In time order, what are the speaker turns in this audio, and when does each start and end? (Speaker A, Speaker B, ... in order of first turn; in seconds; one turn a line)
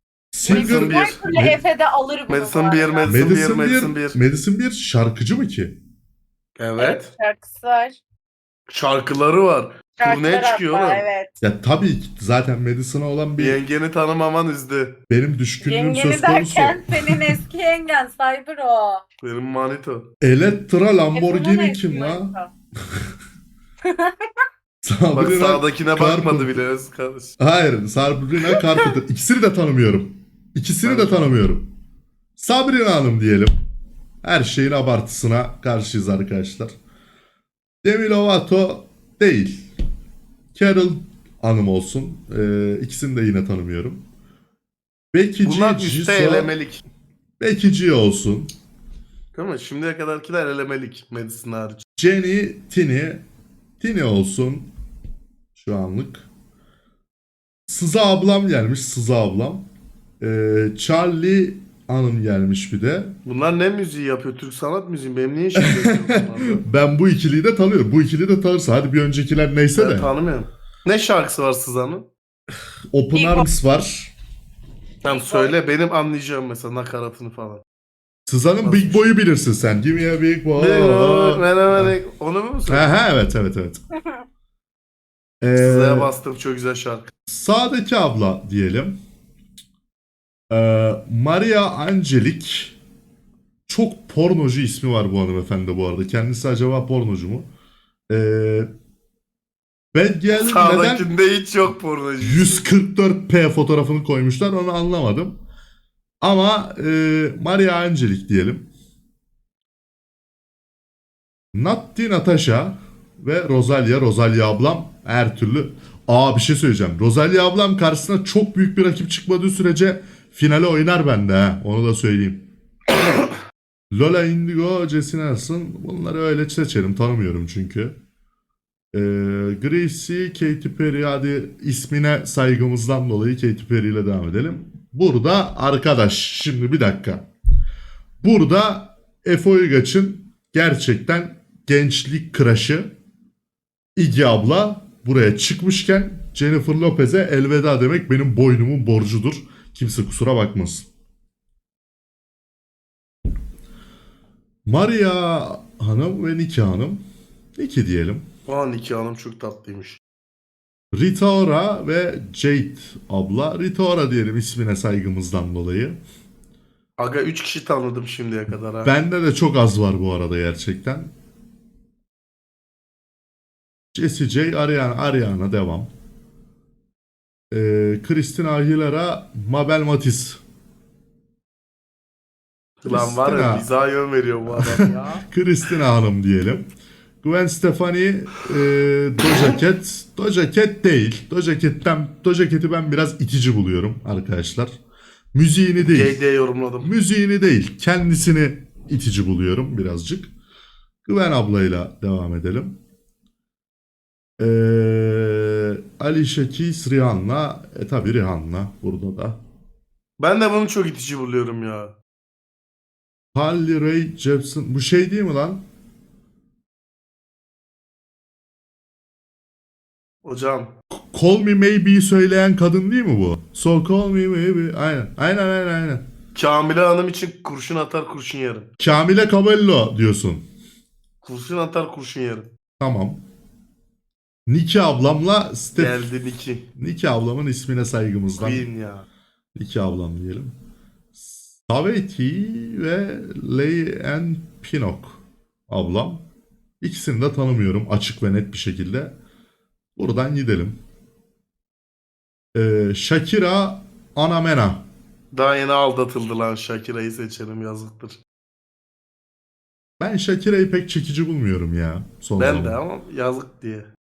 Speaker A: 0.3-1.6
Speaker B: 0.5-1.2
Speaker C: 0.5-3.2
Speaker B: 2.3-4.2
Speaker A: 3.1-5.8
Speaker B: 6.6-7.1
Speaker C: 6.8-8.0
Speaker B: 8.7-11.1
Speaker C: 10.0-11.3
Speaker A: 11.4-13.6
Speaker B: 13.4-15.0
Speaker A: 15.1-17.4
Speaker C: 15.6-19.0
Speaker B: 19.2-20.1
Speaker A: 20.2-22.3
Speaker C: 21.1-22.5
Speaker C: 23.9-24.1
Speaker A: 24.8-26.6
Speaker B: 25.1-27.4
Speaker A: 27.4-31.7
Speaker B: 30.8-31.4
Speaker A: 32.4-33.5
Speaker A: 34.2-36.7
Speaker A: 37.8-39.7
Speaker A: 40.5-44.0
Speaker A: 45.1-46.5
Speaker B: 45.4-46.8
Speaker A: 47.4-48.5
Speaker B: 49.3-51.8
Speaker A: 52.0-53.2
Speaker A: 53.8-54.7
Speaker A: 55.5-56.3
Speaker A: 57.7-59.7
Speaker A: 60.2-63.1
Speaker B: 63.2-66.7
Speaker A: 65.6-70.1
Speaker B: 69.8-72.1
Speaker A: 72.9-74.1
Speaker C: 73.1-73.5
Speaker B: 75.0-77.6
Speaker C: 75.1-75.5
Speaker A: 78.3-82.0
Speaker B: 78.6-79.1
Speaker B: 80.5-83.0
Speaker A: 82.7-83.8
Speaker A: 85.4-86.1
Speaker B: 85.6-87.1
Speaker A: 87.3-88.9
Speaker A: 90.5-92.8
Speaker A: 93.7-97.5
Speaker A: 98.1-98.7
Speaker A: 99.9-101.1
Speaker B: 100.3-102.7
Speaker A: 102.2-105.4
Speaker A: 106.2-108.7
Speaker A: 111.5-122.5
Speaker A: 123.9-128.0
Speaker A: 128.9-137.3
Speaker A: 138.2-142.9
Speaker A: 144.0-150.9
Speaker A: 154.7-157.0
Speaker A: 157.6-158.3
Speaker B: 158.5-160.0
Speaker A: 160.9-166.0
Speaker B: 167.0-168.9
Speaker A: 168.8-171.1
Speaker A: 173.9-175.9
Speaker A: 177.5-180.4
Speaker B: 182.8-185.2
Speaker A: 182.9-183.7
Speaker A: 184.5-186.7
Speaker A: 187.2-194.7
Speaker A: 195.3-196.2
Speaker B: 195.8-196.9
Speaker A: 196.8-200.3
Speaker A: 201.1-202.8
Speaker A: 204.4-209.4
Speaker B: 210.2-211.9
Speaker A: 213.3-215.6
Speaker B: 220.2-220.7
Speaker A: 220.9-226.0
Speaker B: 226.3-228.7
Speaker A: 228.8-230.4
Speaker B: 231.2-232.5
Speaker A: 232.8-233.2
Speaker A: 234.5-236.1
Speaker B: 235.8-236.7
Speaker A: 236.7-238.7
Speaker B: 238.4-239.1
Speaker A: 239.6-240.6
Speaker A: 241.2-246.2
Speaker A: 246.8-249.2
Speaker A: 250.0-250.8
Speaker A: 252.6-254.8
Speaker B: 255.3-258.2
Speaker A: 260.0-262.8
Speaker B: 262.4-263.9